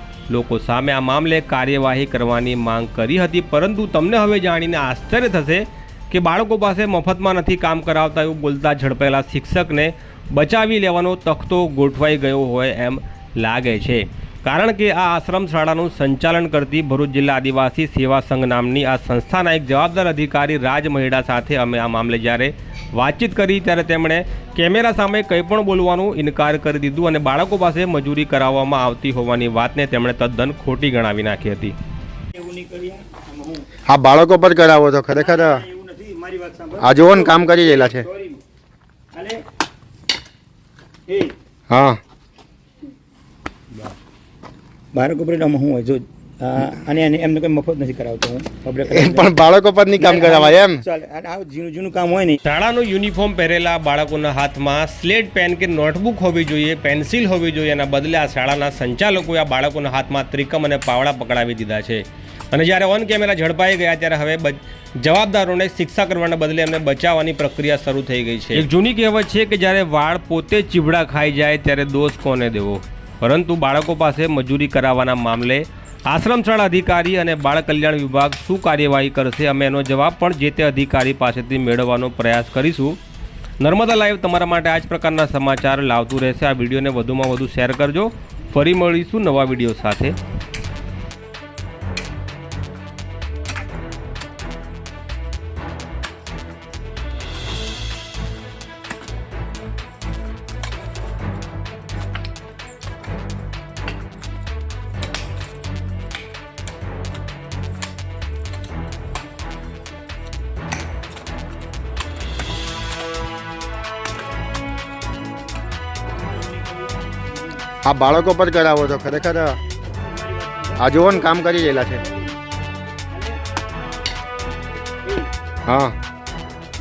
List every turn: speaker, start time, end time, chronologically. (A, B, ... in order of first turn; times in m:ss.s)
0:00.3-0:31.8 A
0:32.3-0:33.6 B
0:33.9-0:35.6 C
0:35.1-0:38.4 B
0:36.8-0:38.0 C
0:39.1-0:39.4 B
0:41.1-0:41.3 B
0:41.7-0:42.0 C
0:44.9-0:49.3 B
0:48.9-0:50.8 C
0:50.0-0:52.4 B
0:52.4-1:23.0 A
1:23.6-1:30.2 A
1:56.2-1:57.3 B
1:57.8-1:59.6 C
1:59.6-2:02.3 B
2:00.8-2:02.0 C
2:03.1-2:03.4 B
2:05.0-2:05.3 B
2:05.6-2:06.0 C